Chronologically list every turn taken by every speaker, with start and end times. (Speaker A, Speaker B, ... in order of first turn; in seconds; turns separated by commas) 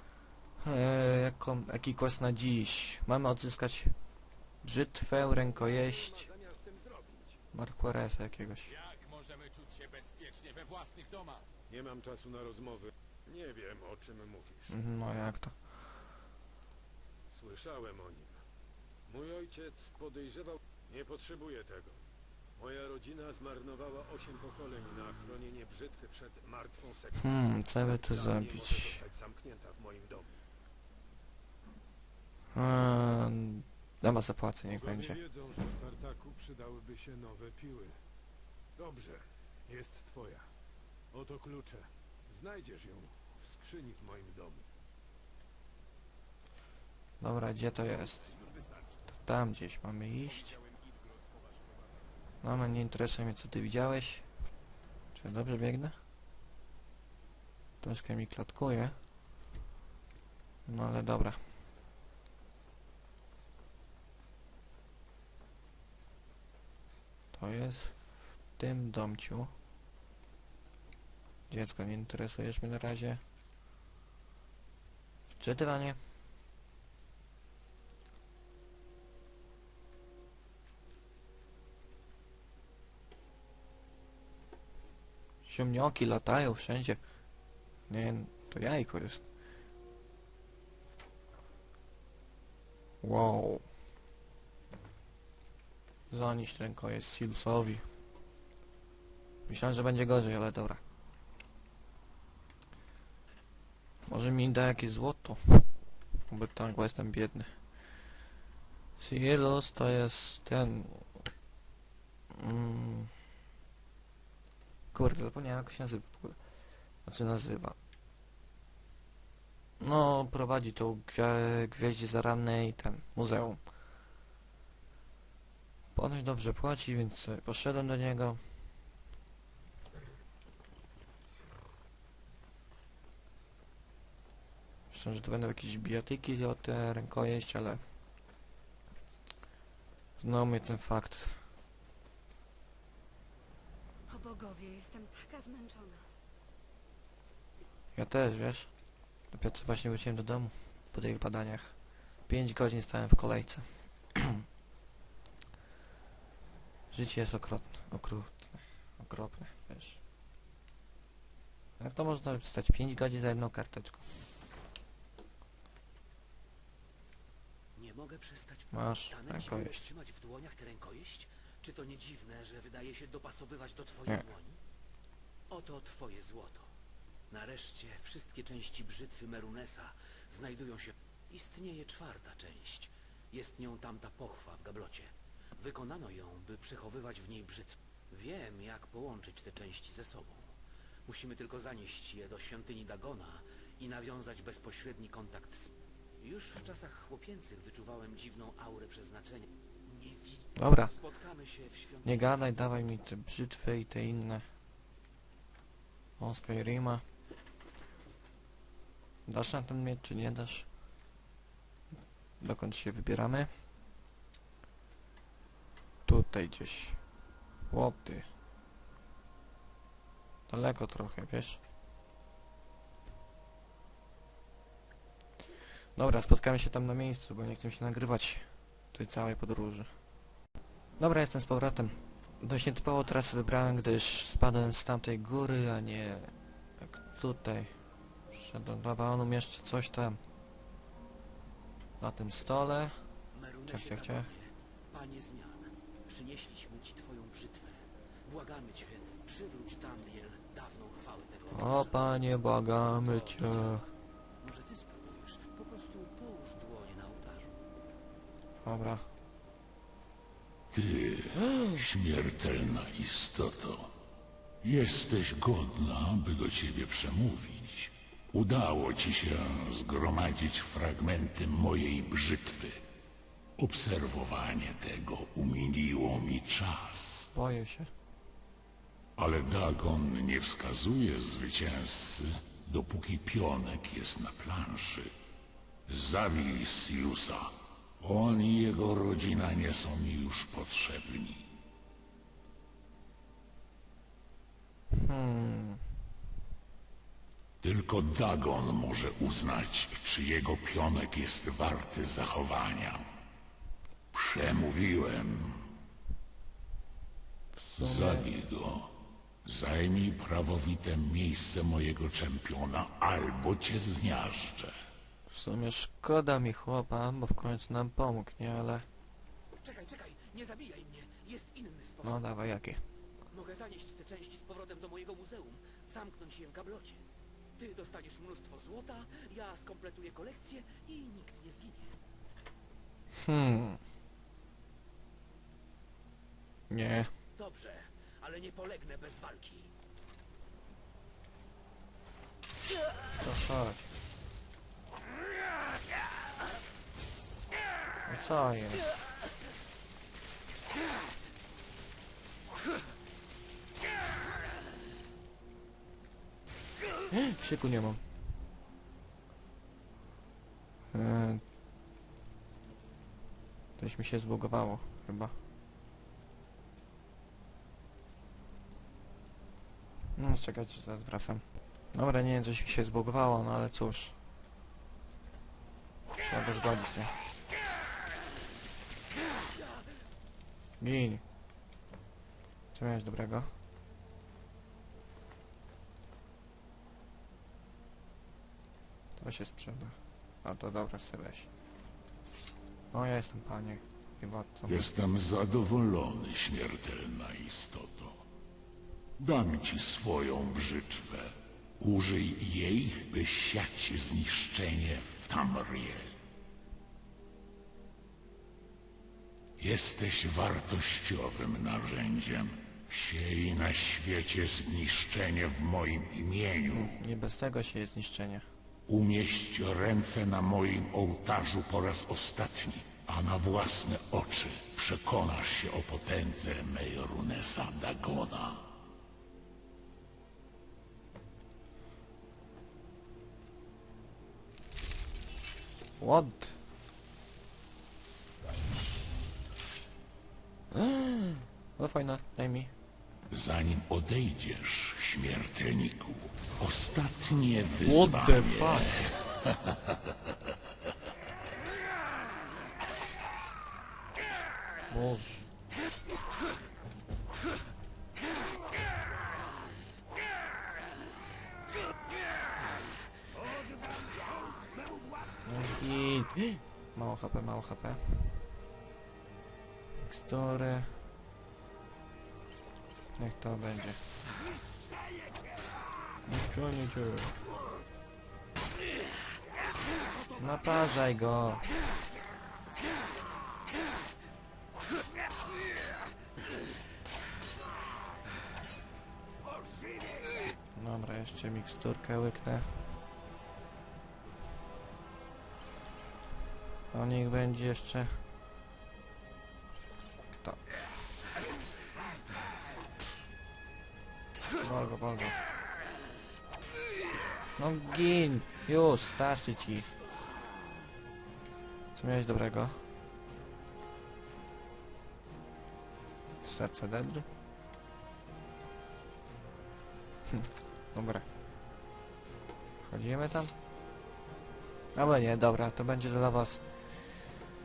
Speaker A: 0.6-4.0, Speaker A: 4.6-6.3, Speaker B: 5.2-7.4, Speaker A: 7.5-8.8, Speaker C: 8.8-11.4, Speaker B: 11.7-14.7, Speaker A: 14.7-15.7, Speaker B: 17.3-18.4, Speaker B: 19.1-22.0, Speaker B: 22.6-27.3, Speaker A: 27.1-29.0, Speaker B: 27.8-30.4, Speaker A: 32.5-35.2, Speaker B: 34.7-38.0, Speaker B: 38.8-40.5, Speaker B: 41.1-44.7, Speaker A: 47.2-48.3, Speaker A: 49.1-50.6, Speaker A: 52.4-54.3, Speaker A: 55.1-56.0, Speaker A: 57.8-59.0, Speaker A: 60.7-61.6, Speaker A: 67.3-69.5, Speaker A: 71.5-73.2, Speaker A: 75.3-76.1, Speaker A: 85.4-87.0, Speaker A: 87.9-89.2, Speaker A: 93.0-93.7, Speaker A: 96.1-97.9, Speaker A: 99.5-100.8, Speaker A: 104.1-105.7, Speaker A: 106.3-107.7, Speaker A: 109.0-111.2, Speaker A: 112.3-113.1, Speaker A: 114.9-117.8, Speaker A: 119.8-123.7, Speaker A: 125.9-128.8, Speaker A: 134.9-137.8, Speaker A: 140.2-141.5, Speaker D: 144.1-146.1, Speaker A: 147.9-148.7, Speaker A: 149.3-154.4, Speaker A: 156.9-160.0, Speaker A: 161.8-164.1, Speaker E: 167.8-174.6, Speaker A: 168.7-169.8, Speaker E: 175.5-176.7, Speaker E: 177.3-190.5, Speaker E: 191.1-202.5, Speaker A: 200.6-200.9, Speaker A: 202.0-204.4, Speaker A: 206.2-207.0, Speaker A: 209.2-210.7, Speaker A: 212.4-213.5, Speaker A: 216.0-217.0, Speaker A: 217.6-218.3, Speaker A: 220.5-221.6, Speaker A: 225.9-229.9, Speaker A: 231.0-237.8, Speaker E: 233.2-234.3, Speaker A: 238.3-240.2, Speaker A: 242.0-242.9, Speaker E: 243.3-252.2, Speaker A: 243.7-244.3, Speaker A: 251.5-253.8, Speaker E: 252.8-257.6, Speaker A: 258.6-259.1, Speaker F: 260.7-263.9, Speaker F: 264.6-272.8, Speaker F: 273.6-277.3, Speaker A: 277.3-277.9, Speaker F: 279.1-285.1, Speaker F: 285.9-291.5, Speaker A: 294.9-295.9, Speaker F: 297.6-303.0, Speaker F: 304.1-305.7, Speaker A: 307.5-308.3, Speaker F: 307.8-314.7, Speaker A: 315.3-318.9, Speaker E: 319.6-322.3, Speaker A: 322.0-322.8, Speaker E: 323.3-327.1, Speaker E: 327.6-331.9, Speaker A: 333.1-333.8, Speaker A: 336.7-337.1, Speaker E: 337.4-339.7, Speaker A: 343.2-343.9, Speaker A: 348.1-348.9, Speaker A: 357.1-358.0, Speaker A: 360.9-361.4, Speaker A: 363.8-365.4, Speaker A: 370.1-374.1, Speaker A: 376.2-377.1, Speaker A: 380.8-381.2, Speaker A: 382.7-383.5, Speaker A: 389.2-391.5, Speaker A: 392.9-394.9, Speaker F: 394.7-398.2, Speaker F: 399.2-406.1, Speaker F: 409.6-417.0, Speaker A: 416.7-418.4, Speaker F: 418.9-428.7, Speaker A: 436.0-436.6, Speaker A: 440.8-442.7, Speaker F: 443.3-450.0, Speaker A: 447.8-449.1, Speaker A: 454.9-455.4, Speaker B: 463.6-464.3, Speaker A: 465.4-468.4, Speaker A: 469.9-471.0, Speaker A: 473.2-474.1, Speaker A: 476.2-477.4, Speaker A: 480.3-481.7, Speaker A: 490.8-492.8, Speaker A: 496.9-498.2, Speaker A: 504.6-505.4, Speaker A: 507.6-509.9, Speaker A: 511.9-512.9, Speaker A: 516.4-517.2, Speaker A: 520.3-521.2, Speaker A: 522.8-523.5, Speaker A: 524.9-527.3